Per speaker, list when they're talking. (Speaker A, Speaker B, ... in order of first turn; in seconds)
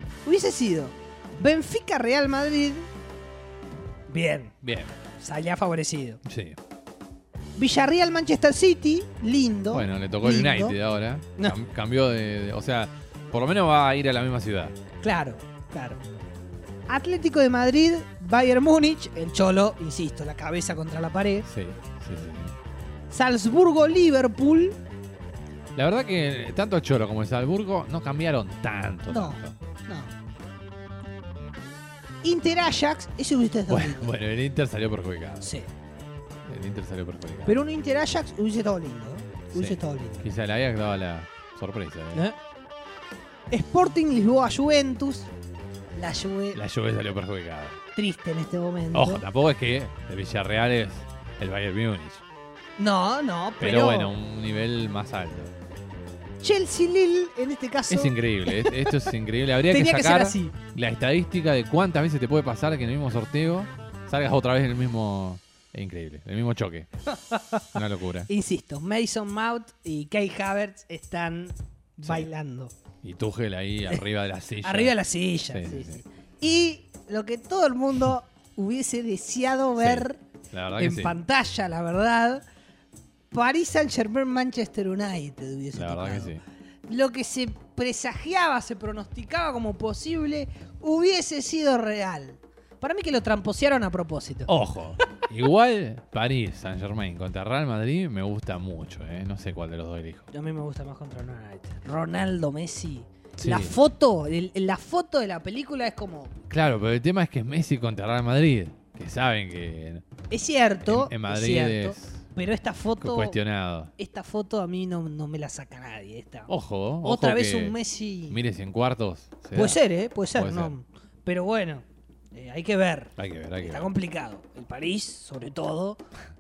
Speaker A: 0.2-2.9, 4.1-4.5, 5.2-6.2, 7.6-10.8, 15.0-16.0, 16.9-21.5, 23.1-24.8, 29.1-30.1, 32.2-34.1, 35.4-35.7, 37.5-40.3, 43.5-45.3, 45.9-46.6, 47.9-49.2, 52.8-54.1, 56.4-59.0, 59.7-60.6, 67.1-72.7, 74.6-80.2, 80.7-82.4, 83.3-86.4, 86.9-94.5, 100.3-106.3, 110.3-113.4, 114.0-116.5, 117.0-118.4, 119.5-126.0
Speaker B: 4.6-4.9, 6.2-6.6, 9.7-14.8, 21.5-22.5, 25.8-29.5, 33.7-35.5, 36.5-37.6, 39.5-42.3, 46.5-47.8, 48.9-52.2, 53.6-55.5, 57.9-66.9, 67.8-68.3, 72.0-72.3, 73.0-74.9, 75.5-76.0, 79.8-81.2, 85.7-86.4, 94.5-100.2, 103.4-103.8, 106.5-110.0, 110.9-112.2, 113.0-113.9, 116.5-117.8, 118.3-119.8, 120.3-120.7, 123.2-123.9